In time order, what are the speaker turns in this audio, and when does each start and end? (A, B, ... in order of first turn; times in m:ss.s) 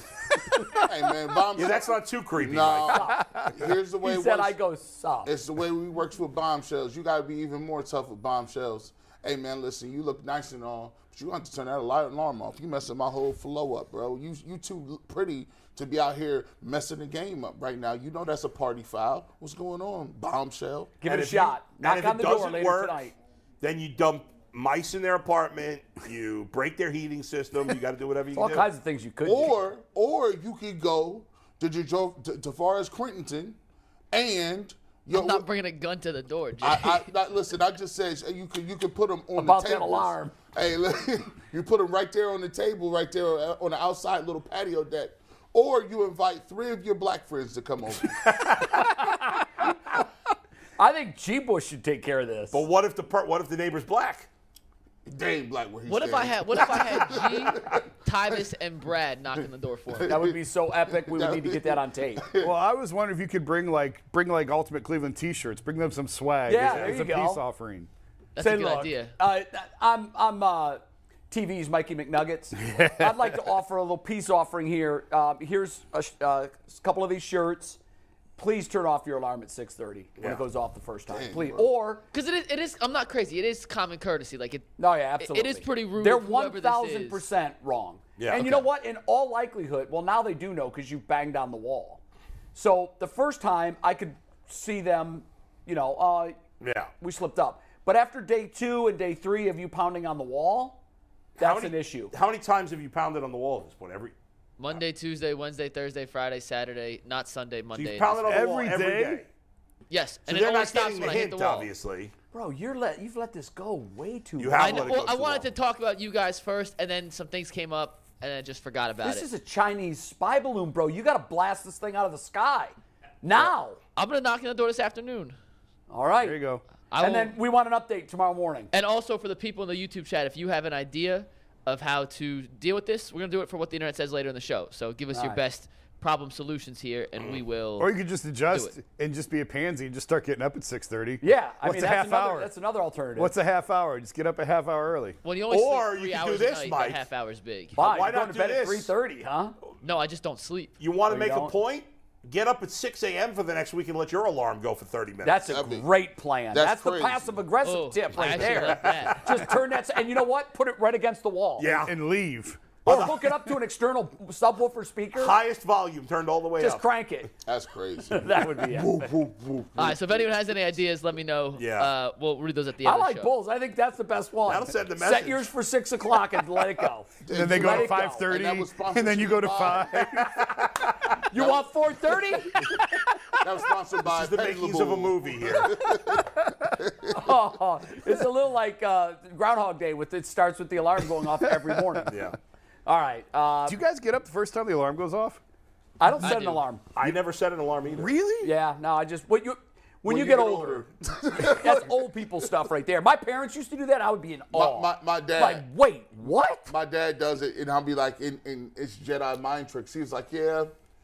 0:00.8-0:04.6 A
0:01.6-0:03.0 B
0:02.9-0:03.5 C
0:04.0-0:05.3 C
0:05.2-0:21.0 A
0:21.0-0:23.1 C
0:21.0-0:23.1 B
0:23.6-0:28.7 B
0:28.3-0:29.6 C
0:29.2-0:33.6 A
0:34.1-0:35.5 A
0:35.1-0:37.1 D
0:36.6-0:48.6 A
0:39.4-0:40.4 C
0:48.5-0:48.8 B
0:48.8-0:49.7 C
0:50.8-0:52.7 C
0:52.5-0:54.3 B
0:55.1-0:58.4 A
0:55.9-1:00.2 D
0:59.4-1:02.5 A
1:00.1-1:02.2 C
1:02.4-1:07.9 E
1:06.5-1:07.4 C
1:08.4-1:09.1 D
1:08.4-1:17.8 C
1:18.4-1:22.0 C
1:20.2-1:20.4 B
1:21.1-1:21.7 A
1:22.1-1:27.2 D
1:24.8-1:32.0 C
1:28.2-1:28.7 B
1:32.5-1:36.4 C
1:36.6-1:36.9 B
1:37.0-1:40.8 C
1:41.4-1:42.1 C
1:41.4-1:44.1 B
1:44.6-1:48.4 D
1:47.7-1:49.3 B
1:48.3-1:49.2 E
1:49.9-1:51.7 D
1:50.3-1:52.1 B
1:52.3-1:55.0 C
1:54.4-1:55.5 B
1:54.6-1:59.3 D
1:59.0-2:03.8 C
2:04.0-2:05.4 D
2:05.9-2:06.4 C
2:06.2-2:06.6 E
2:06.9-2:07.4 D
2:07.0-2:08.7 C
2:08.7-2:17.9 D
2:15.1-2:15.4 C
2:17.8-2:22.5 E
2:21.2-2:23.3 C
2:23.2-2:25.2 E
2:25.2-2:27.8 D
2:25.5-2:27.0 B
2:27.8-2:28.9 B
2:27.8-2:29.6 C
2:29.8-2:30.8 D
2:30.8-2:35.5 B
2:31.1-2:31.5 C
2:35.2-2:41.8 C
2:35.5-2:35.9 A
2:36.5-2:37.4 A
2:37.6-2:39.5 D
2:41.6-2:41.9 B
2:41.8-2:42.8 E
2:42.8-2:43.4 B
2:42.8-2:45.4 C
2:45.2-2:46.9 B
2:46.6-2:47.3 C
2:47.4-2:50.3 A
2:48.1-2:49.1 C
2:49.8-2:53.3 D
2:51.6-2:51.9 B
2:52.8-2:58.3 C
2:54.5-2:55.5 B
2:57.2-3:00.6 A
2:57.3-3:00.7 E
3:01.3-3:03.0 C
3:01.3-3:01.7 A
3:03.3-3:07.4 A
3:04.0-3:05.8 B
3:07.1-3:12.3 C
3:11.4-3:12.1 E
3:12.1-3:12.4 B
3:12.9-3:13.8 C
3:13.7-3:15.4 E
3:16.0-3:16.8 C
3:16.2-3:16.6 D
3:17.0-3:18.2 B
3:17.9-3:18.5 E
3:18.4-3:20.8 C
3:20.0-3:22.1 A
3:21.4-3:26.7 C
3:24.5-3:25.7 A
3:26.7-3:30.7 A